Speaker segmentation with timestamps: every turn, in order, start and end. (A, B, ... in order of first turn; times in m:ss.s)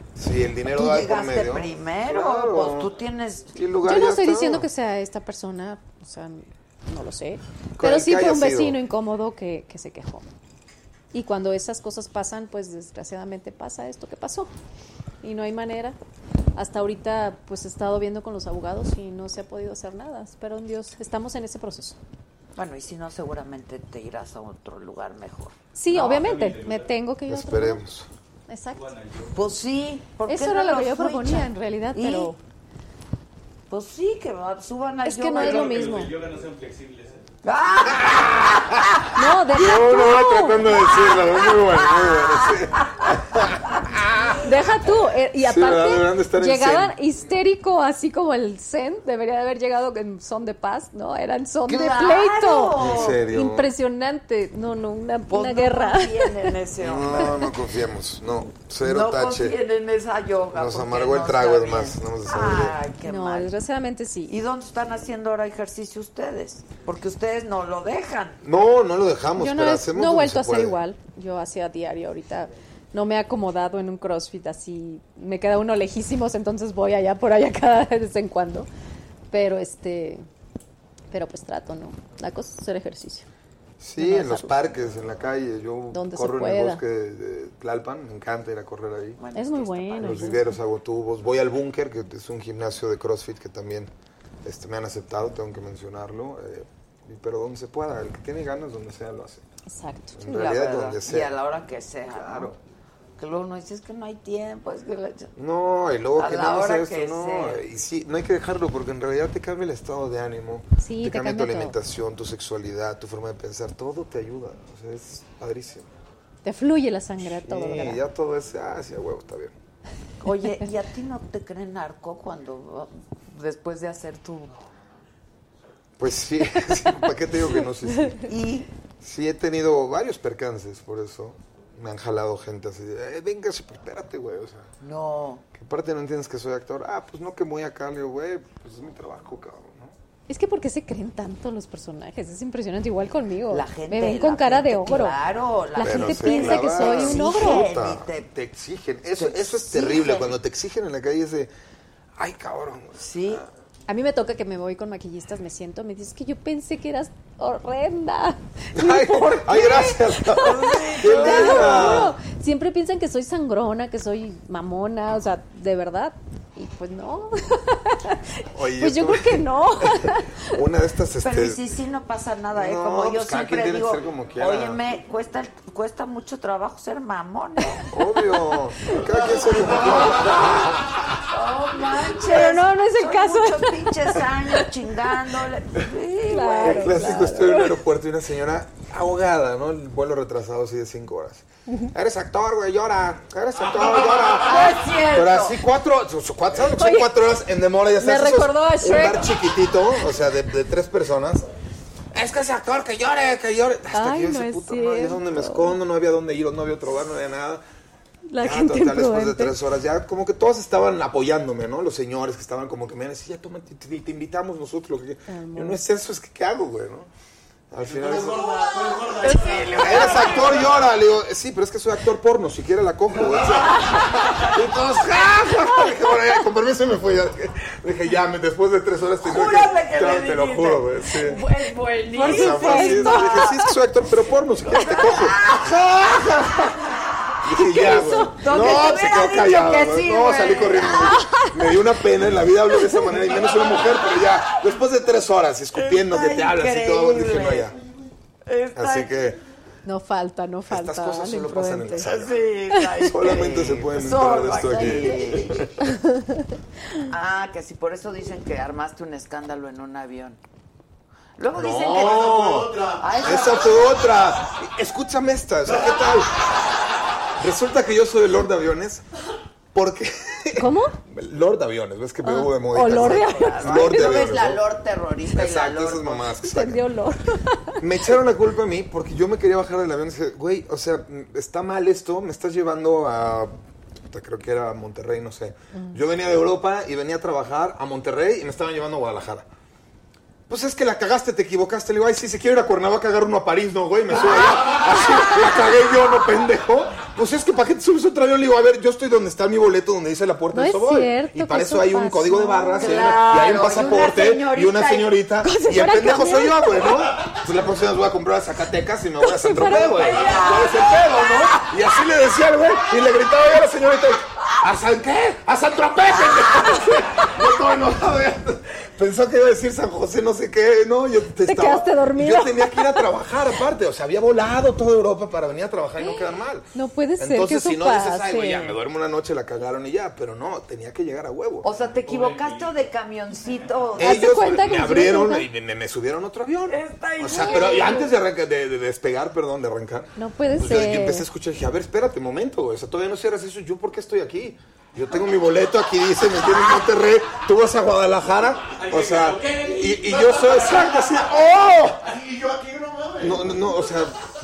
0:00.1-0:02.9 A
0:00.7-0:03.6 B
0:03.5-0:04.6 A
0:03.8-0:10.2 C
0:07.8-0:08.8 A
0:11.1-0:14.5 C
0:15.2-0:16.0 C
0:16.6-0:22.0 C
0:22.6-0:25.6 B
0:25.7-0:27.8 C
0:25.8-0:26.9 D
0:27.3-0:28.1 A
0:28.5-0:28.8 C
0:28.8-0:29.4 D
0:29.3-0:32.3 B
0:30.3-0:32.4 C
0:33.7-0:36.0 B
0:35.0-0:36.1 C
0:35.3-0:37.2 D
0:37.4-0:39.2 B
0:37.9-0:44.5 A
0:39.1-0:41.0 C
0:40.9-0:43.1 B
0:44.4-0:56.5 C
0:45.4-0:47.0 A
0:51.6-0:53.2 B
0:52.8-0:53.7 A
0:55.3-0:57.5 B
0:56.8-0:59.6 A
0:58.8-1:03.6 B
1:00.5-1:02.8 A
1:03.0-1:04.4 C
1:04.3-1:08.4 B
1:08.4-1:10.8 A
1:09.4-1:18.7 C
1:19.3-1:20.2 C
1:21.1-1:23.3 C
1:23.8-1:29.2 A
1:24.0-1:24.6 C
1:25.9-1:26.8 C
1:29.2-1:30.4 B
1:29.3-1:30.5 C
1:30.0-1:33.9 A
1:34.4-1:39.4 A
1:39.7-1:40.2 C
1:40.1-1:41.4 A
1:40.2-1:42.6 B
1:42.1-1:42.6 A
1:43.2-1:45.3 B
1:45.4-1:55.9 A
1:46.2-1:47.6 B
1:50.8-1:51.8 C
1:56.4-1:58.0 C
1:57.3-1:59.5 A
2:00.2-2:04.6 B
2:06.0-2:08.2 A
2:07.6-2:08.2 C
2:08.3-2:08.7 B
2:09.0-2:14.7 A
2:14.8-2:15.4 B
2:15.5-2:19.9 A
2:20.3-2:25.2 C
2:23.5-2:28.3 B
2:25.8-2:27.7 C
2:25.8-2:31.5 A
2:29.2-2:30.3 B
2:32.2-2:33.5 A
2:33.0-2:33.4 B
2:33.9-2:50.4 C
2:38.7-2:42.2 A
2:40.4-2:42.1 B
2:48.5-2:51.6 A
2:51.2-2:57.8 B
2:52.5-2:54.8 A
2:57.9-3:00.9 A
2:59.6-3:07.2 B
3:02.2-3:04.6 C
3:06.3-3:07.8 C
3:06.6-3:21.4 A
3:14.4-3:15.6 B
3:16.6-3:17.1 C
3:18.0-3:19.4 C
3:22.1-3:27.6 A
3:23.9-3:25.8 C
3:28.3-3:29.6 C
3:28.4-3:37.1 A
3:35.3-3:35.8 C
3:37.7-3:38.6 A
3:37.9-3:40.7 E
3:39.2-3:39.6 C
3:39.3-3:40.4 B
3:39.7-3:51.4 A
3:49.2-3:53.5 B
3:52.1-3:53.7 C
3:52.2-3:56.7 A
3:54.7-3:55.2 C
3:54.9-3:56.3 B
3:57.4-4:07.8 A
3:57.6-3:59.0 C
3:57.9-4:01.2 B
4:01.0-4:01.7 C
4:02.7-4:03.1 C
4:05.7-4:07.7 B
4:08.4-4:09.1 B
4:08.7-4:09.4 A
4:09.8-4:12.1 C
4:10.7-4:12.5 A
4:11.9-4:15.6 B
4:12.7-4:13.1 C
4:13.1-4:15.9 A
4:14.7-4:17.0 C
4:17.1-4:20.4 B
4:21.4-4:23.8 B
4:21.5-4:26.4 A
4:21.9-4:23.7 E
4:27.4-4:29.0 A
4:29.7-4:34.6 A
4:30.6-4:31.0 C
4:32.2-4:34.0 C
4:32.8-4:36.3 B
4:35.3-4:36.8 A
4:36.3-4:38.0 C
4:37.8-4:43.5 A
4:44.1-4:49.4 A
4:50.5-5:31.6 A
4:54.1-4:55.4 C
5:00.5-5:03.4 C
5:02.8-5:05.2 B
5:05.4-5:06.8 C
5:09.2-5:10.7 C
5:10.0-5:11.0 B
5:16.2-5:17.3 C
5:21.4-5:23.1 C
5:26.0-5:28.8 C
5:31.6-5:34.4 B
5:31.6-5:33.8 D
5:34.0-5:52.1 A
5:34.0-5:35.5 C
5:36.7-5:38.1 B
5:37.4-5:38.0 C
5:40.2-5:41.2 C
5:48.7-5:51.0 D
5:52.0-5:53.8 E
5:53.2-5:54.2 A